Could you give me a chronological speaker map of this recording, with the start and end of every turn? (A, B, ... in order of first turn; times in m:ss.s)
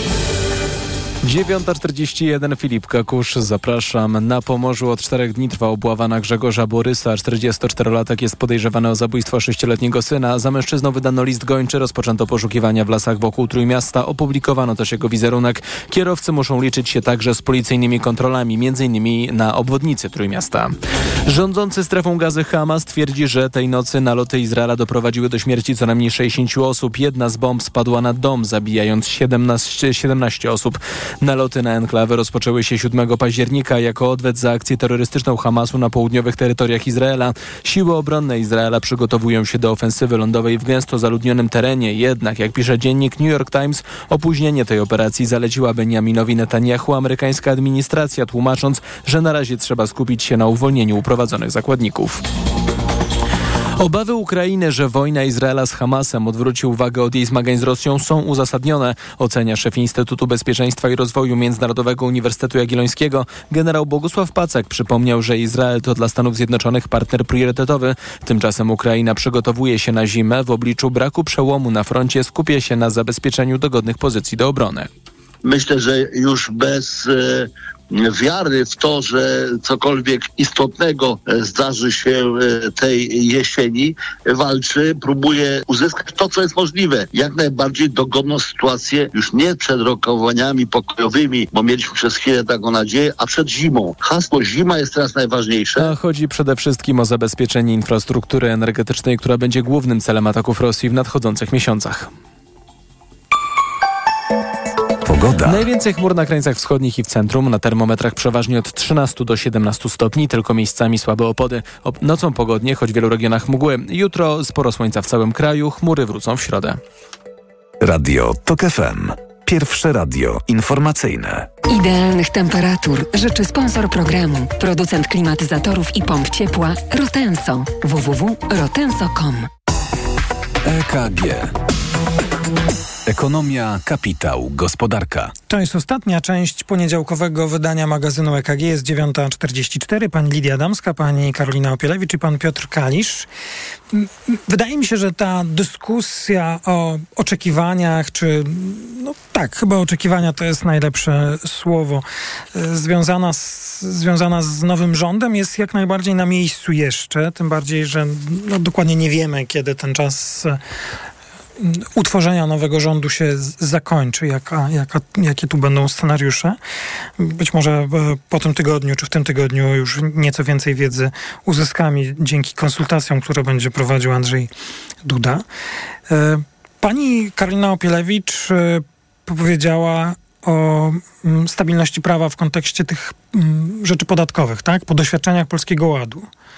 0:01.2-0:52.2 A
0:53.8-1:14.9 A
1:15.4-1:35.9 B
1:35.8-1:42.1 A
1:45.0-1:45.6 C
1:45.4-1:56.8 A
1:57.8-2:01.5 C
2:01.7-2:09.5 D
2:10.6-2:11.5 C
2:13.0-2:15.3 C
2:15.5-2:23.3 E
2:23.9-2:40.6 E
2:41.6-2:46.6 E
2:47.2-2:54.5 E
2:55.0-2:55.4 E
2:56.1-3:06.3 E